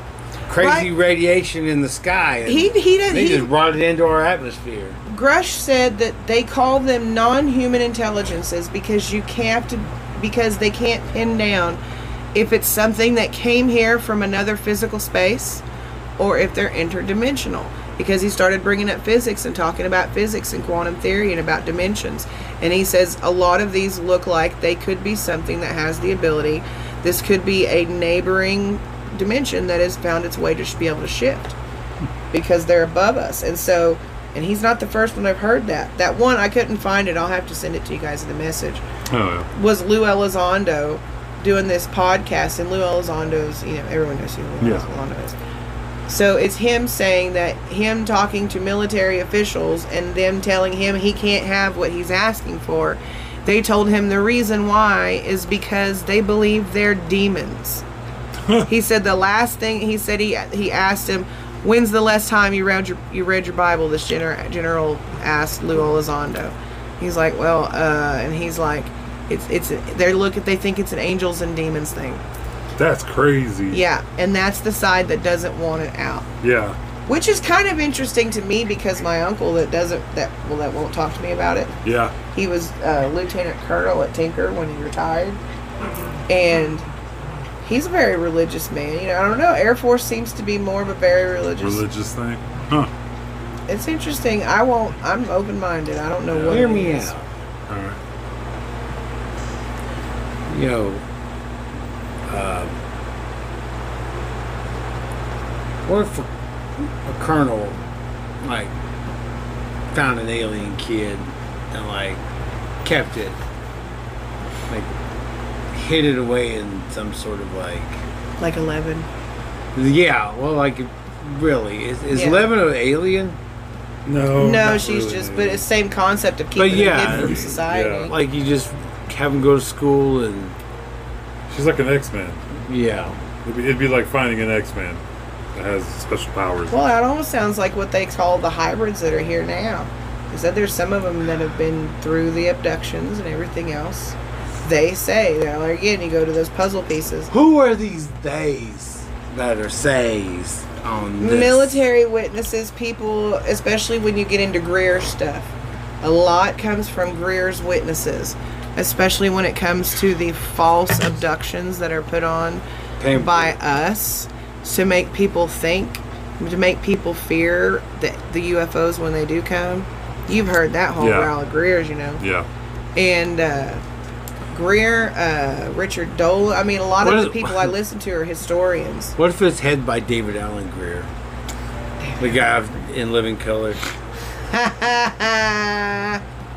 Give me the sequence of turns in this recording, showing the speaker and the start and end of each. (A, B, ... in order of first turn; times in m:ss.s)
0:00.5-0:05.0 A
0:00.6-0:00.9 B
0:02.4-0:03.5 B
0:05.1-0:11.8 B
0:12.3-0:15.6 B
0:16.2-0:31.6 B
0:32.3-0:38.8 B
0:39.1-0:39.5 C
0:39.5-0:45.4 B
0:44.6-0:44.9 C
0:46.1-0:57.8 B
0:58.6-1:12.2 B
1:12.8-1:13.8 C
1:13.7-1:16.3 B
1:16.4-1:16.8 C
1:17.1-1:21.7 B
1:21.8-1:22.2 C
1:22.3-1:25.4 B
1:26.3-1:26.9 B
1:27.6-1:31.8 B
1:31.6-1:32.9 C
1:33.7-1:37.1 B
1:36.3-1:36.7 C
1:36.4-1:37.3 A
1:40.5-1:41.0 A
1:42.3-1:42.8 A
1:45.8-1:47.8 A
1:48.4-1:48.7 A
1:49.9-1:52.2 A
1:52.8-1:53.4 A
1:55.7-1:58.0 A
1:58.4-1:59.1 B
1:59.7-2:03.4 A
2:02.1-2:02.5 B
2:04.1-2:05.6 C
2:04.4-2:08.1 B
2:06.6-2:10.6 A
2:07.0-2:08.1 C
2:11.5-2:12.4 C
2:12.6-2:13.2 A
2:13.4-2:15.0 C
2:15.5-2:16.8 C
2:16.7-2:27.3 B
2:27.3-2:31.8 A
2:31.2-2:52.2 B
2:43.0-2:43.6 A
2:51.0-2:51.3 C
2:52.2-2:52.5 C
2:53.0-2:53.8 B
2:54.5-2:59.2 B
2:57.0-2:57.8 A
2:59.2-3:01.1 A
3:02.0-3:02.5 B
3:02.2-3:03.9 A
3:04.5-3:06.2 B